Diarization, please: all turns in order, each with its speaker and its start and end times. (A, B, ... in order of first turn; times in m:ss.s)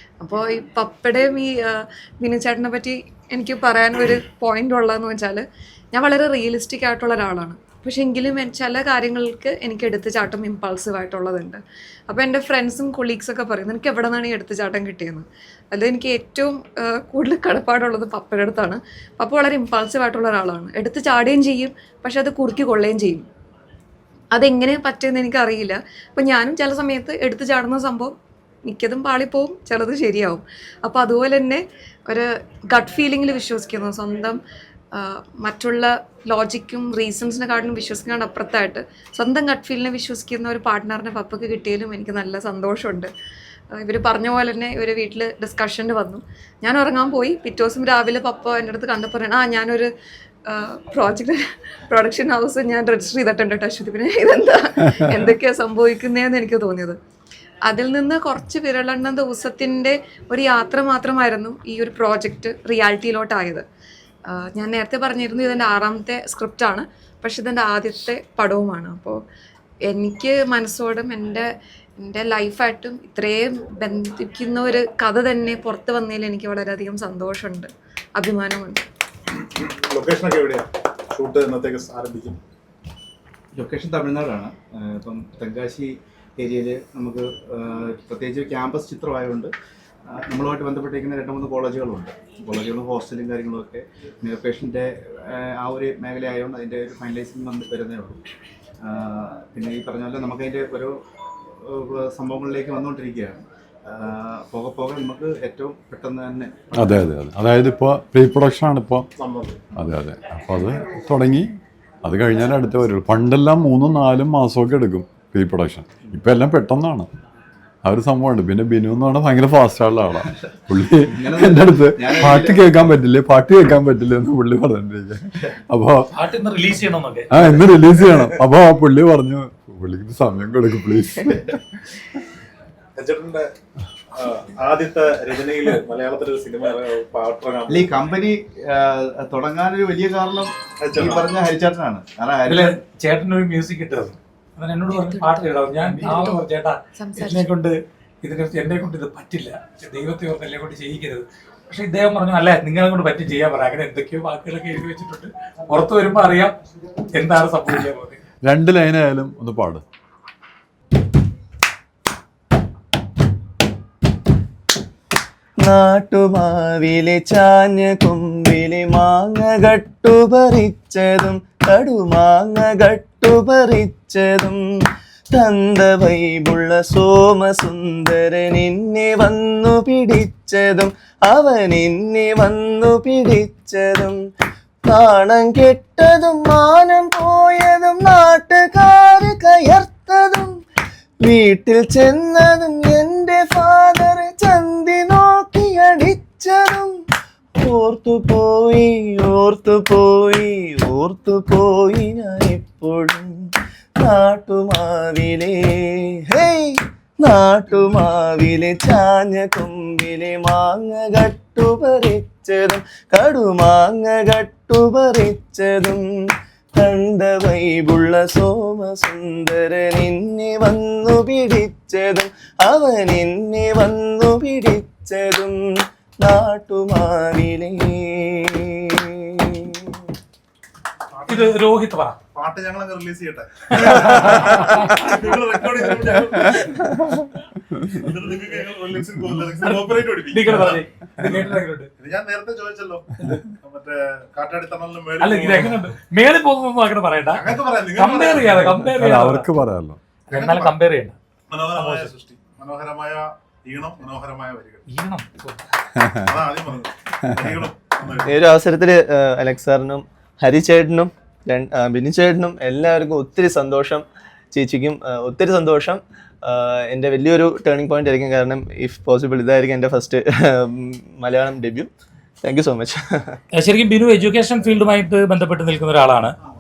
0:00.2-0:23.2 A
0:24.3-0:28.1 A
0:28.7-0:34.4 A
0:34.9-0:43.1 A
0:43.7-0:49.9 A
0:50.5-0:57.0 A
0:57.6-1:03.6 A
1:04.3-1:09.2 A
1:09.9-1:18.9 A
1:19.4-1:22.4 B
1:23.6-1:29.5 C
1:30.1-1:38.2 C
1:38.8-1:41.0 C
1:41.6-1:47.0 C
1:46.8-1:49.1 D
1:49.2-1:49.6 B
1:49.8-1:51.5 D
1:52.0-1:57.1 D
1:57.8-2:06.1 D
2:01.1-2:02.8 C
2:06.1-2:07.4 E
2:07.3-2:12.1 D
2:13.0-2:13.5 B
2:14.1-2:18.0 B
2:17.7-2:22.8 C
2:20.8-2:21.3 B
2:22.5-2:36.6 E
2:24.9-2:26.4 A
2:27.0-2:27.5 A
2:37.1-2:38.2 E
2:38.4-2:39.8 D
2:45.6-2:54.6 F
2:55.3-3:04.2 F
3:04.8-3:10.6 F
3:11.2-3:17.0 F
3:17.6-3:36.0 F
3:36.8-3:50.0 F
3:51.1-3:51.6 B
3:51.3-3:52.2 E
3:52.4-3:57.3 B
3:57.9-4:01.3 B
3:59.6-4:01.9 E
4:02.0-4:05.9 B
4:05.2-4:09.5 E
4:07.3-4:08.8 B
4:08.9-4:10.0 D
4:10.3-4:10.7 B
4:10.3-4:11.2 E
4:11.5-4:14.8 B
4:11.8-4:12.1 E
4:14.9-4:15.7 E
4:16.1-4:18.5 B
4:18.3-4:31.9 F
4:32.4-4:33.4 F
4:33.5-4:36.4 E